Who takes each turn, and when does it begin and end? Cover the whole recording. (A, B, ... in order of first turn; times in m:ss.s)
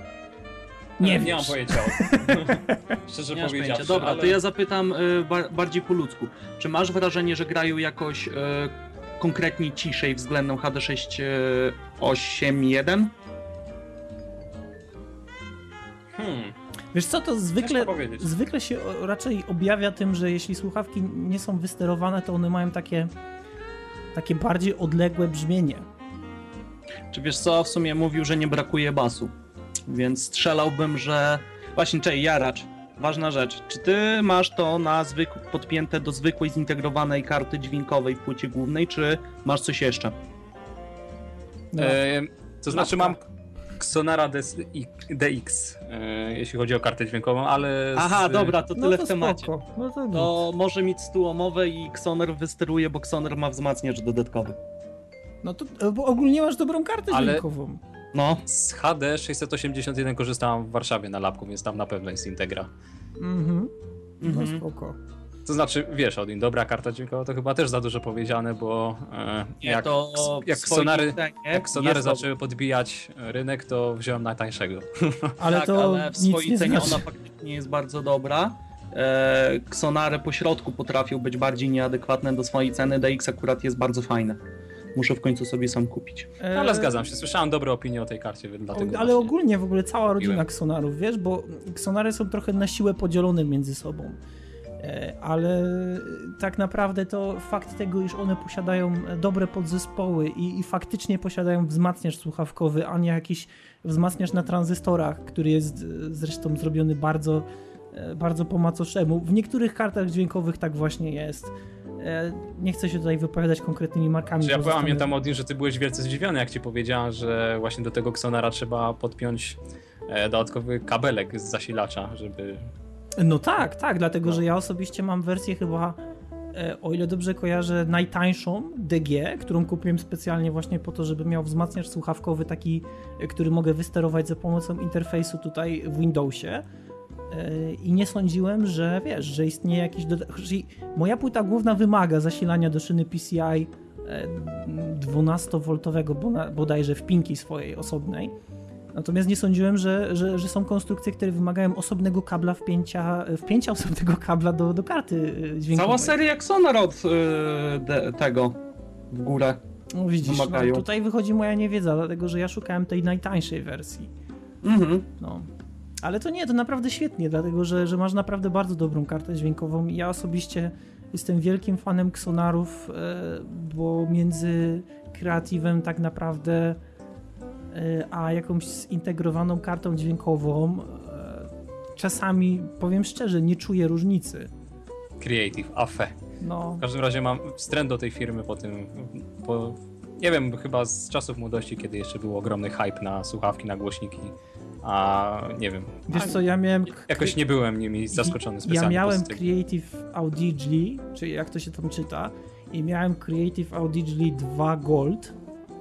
0:01.0-0:04.4 A
0:01.0-0:02.8 B
0:03.3-0:13.1 C
0:16.1-0:16.6 A
0:16.9-0:23.1 B
0:17.6-0:18.3 A
0:24.1-0:25.8 B
0:27.1-0:29.3 C
0:29.9-0:40.1 C
0:41.7-0:42.0 B
0:41.8-0:43.2 A
0:42.7-0:43.2 B
0:43.8-0:48.6 A
0:48.0-0:49.5 C
0:48.7-0:50.4 B
0:50.1-0:54.6 C
0:55.4-0:57.8 B
0:57.1-0:57.4 A
0:58.1-0:58.4 C
0:58.5-1:02.7 A
1:03.2-1:05.0 B
1:04.2-1:04.6 C
1:05.4-1:15.4 A
1:09.6-1:12.2 C
1:15.4-1:17.0 B
1:15.5-1:24.4 C
1:24.9-1:26.3 C
1:26.4-1:27.0 B
1:26.5-1:29.3 A
1:28.7-1:34.2 B
1:34.8-1:55.1 B
1:54.4-2:02.7 A
2:03.2-2:06.0 B
2:06.5-2:16.6 B
2:17.3-2:28.3 B
2:28.9-2:36.2 B
2:35.7-2:38.6 C
2:39.1-2:39.6 C
2:39.9-2:44.1 B
2:40.2-2:40.8 C
2:44.6-2:45.1 C
2:45.2-2:45.5 B
2:46.0-2:56.8 B
2:57.7-3:04.5 B
3:05.2-3:06.2 A
3:06.4-3:06.8 B
3:06.8-3:16.4 A
3:16.1-3:17.4 B
3:17.0-3:19.4 A
3:18.1-3:25.3 B